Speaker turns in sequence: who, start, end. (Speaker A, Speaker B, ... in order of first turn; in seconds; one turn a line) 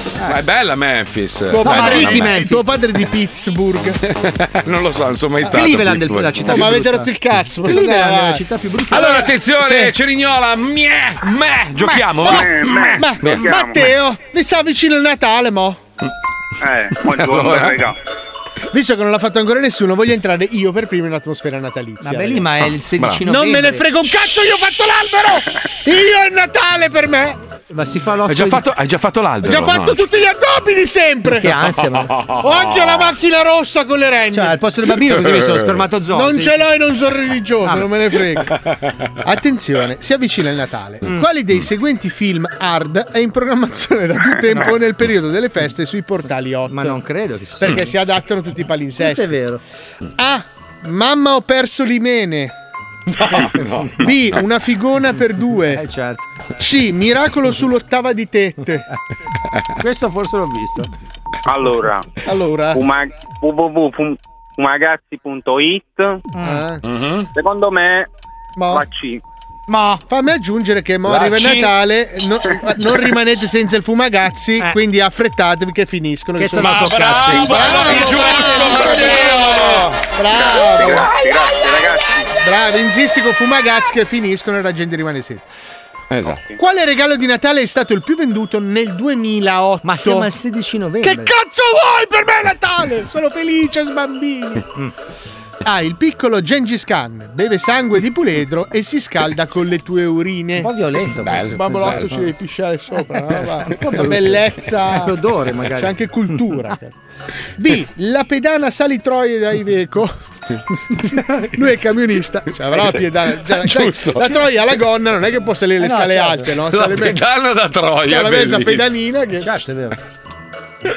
Speaker A: 0.2-2.4
Speaker B: 1.5-4.0
Speaker C: 1.6-2.8
Speaker A: 4.1-6.8
Speaker C: 5.4-7.1
Speaker B: 6.5-9.9
Speaker C: 7.6-9.3
Speaker A: 8.9-13.9
Speaker B: 11.8-15.8
Speaker D: 12.2-13.8
Speaker D: 16.6-17.9
Speaker A: 17.0-17.8
Speaker B: 18.7-22.5
Speaker C: 22.0-24.1
Speaker A: 23.0-23.2
Speaker B: 23.2-27.4
Speaker C: 27.7-28.6
Speaker A: 28.2-30.0
Speaker B: 29.4-31.6
Speaker C: 31.3-32.1
Speaker A: 32.1-33.1
Speaker B: 32.4-34.6
Speaker C: 34.3-36.6
Speaker A: 35.1-35.8
Speaker B: 36.1-38.5
Speaker C: 37.6-37.9
Speaker B: 39.2-47.0
Speaker C: 44.5-44.8
Speaker C: 46.7-47.9
Speaker B: 47.6-49.4
Speaker C: 49.0-49.6
Speaker B: 50.2-52.5
Speaker A: 53.1-54.4
Speaker B: 54.0-55.9
Speaker C: 55.7-56.2
Speaker B: 56.6-58.9
Speaker C: 59.8-60.9
Speaker D: 61.5-62.1
Speaker B: 62.2-62.8
Speaker D: 62.7-66.2
Speaker C: 66.3-66.6
Speaker B: 66.4-66.8
Speaker A: 66.8-67.3
Speaker D: 67.3-68.1
Speaker B: 68.6-68.8
Speaker D: 68.7-69.2
Speaker C: 69.7-70.0
Speaker B: 70.1-81.1
Speaker A: 71.1-71.7
Speaker C: 76.4-77.9
Speaker A: 76.6-80.0
Speaker D: 80.3-82.3
Speaker B: 82.4-85.5
Speaker A: 86.1-86.4
Speaker B: 86.5-90.3
Speaker C: 89.8-91.3
Speaker B: 91.0-94.6
Speaker B: 95.6-100.7
Speaker C: 100.6-102.3
Speaker A: 101.2-102.1
Speaker B: 101.3-105.2
Speaker C: 103.1-105.9
Speaker B: 105.7-107.0
Speaker B: 107.6-110.1
Speaker B: 111.4-117.2
Speaker A: 113.5-114.5
Speaker C: 115.8-116.6
Speaker A: 116.7-119.0
Speaker B: 118.0-119.6
Speaker C: 119.4-120.0